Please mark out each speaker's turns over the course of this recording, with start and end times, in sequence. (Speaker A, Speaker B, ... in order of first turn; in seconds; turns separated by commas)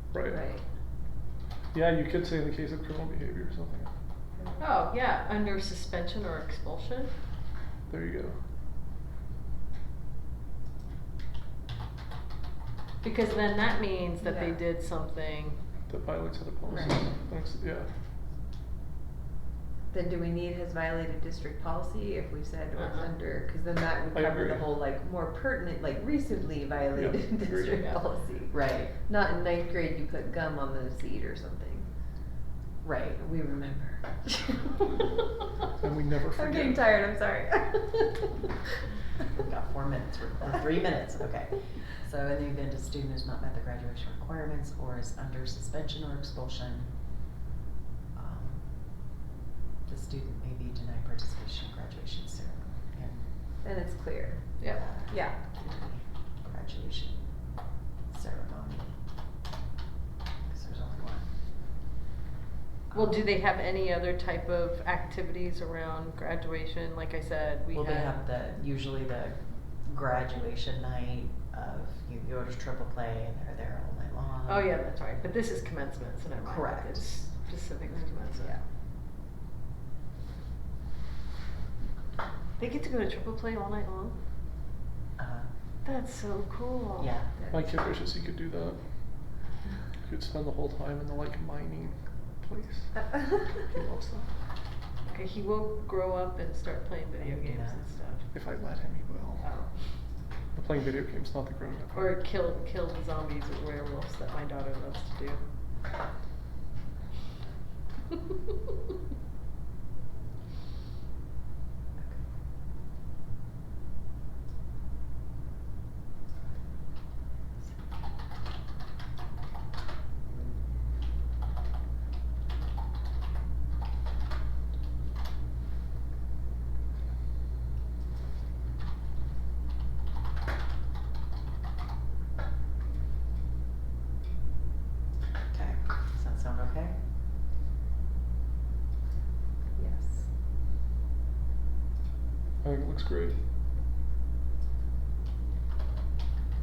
Speaker A: 0.1-0.4, Speaker B: 0.2-0.6, Speaker A: 1.7-3.9, Speaker C: 4.6-7.1, Speaker A: 7.9-8.3, Speaker C: 13.0-15.6, Speaker B: 14.2-14.6, Speaker A: 15.9-17.9, Speaker B: 16.7-17.0, Speaker B: 19.9-31.9, Speaker C: 22.8-23.1, Speaker A: 24.1-24.7, Speaker A: 26.9-27.7, Speaker D: 28.5-28.9, Speaker D: 32.8-33.3, Speaker B: 33.2-35.0, Speaker A: 35.8-36.9, Speaker B: 36.3-38.3, Speaker D: 39.3-46.9, Speaker D: 48.1-48.7, Speaker D: 49.9-53.3, Speaker B: 53.6-54.4, Speaker D: 54.7-57.2, Speaker B: 55.1-55.4, Speaker D: 58.1-59.0, Speaker D: 60.5-61.3, Speaker D: 62.9-63.2, Speaker C: 62.9-68.2, Speaker D: 67.7-74.7, Speaker C: 74.5-78.6, Speaker D: 76.5-77.1, Speaker C: 82.6-84.1, Speaker D: 85.2-85.5, Speaker C: 85.8-87.1, Speaker D: 87.0-87.3, Speaker A: 87.5-88.8, Speaker A: 90.1-94.3, Speaker C: 95.1-98.2, Speaker D: 97.2-97.8, Speaker A: 98.3-99.5, Speaker C: 99.4-99.7, Speaker A: 100.5-102.1, Speaker C: 101.9-105.4, Speaker D: 135.5-137.0, Speaker A: 142.6-143.4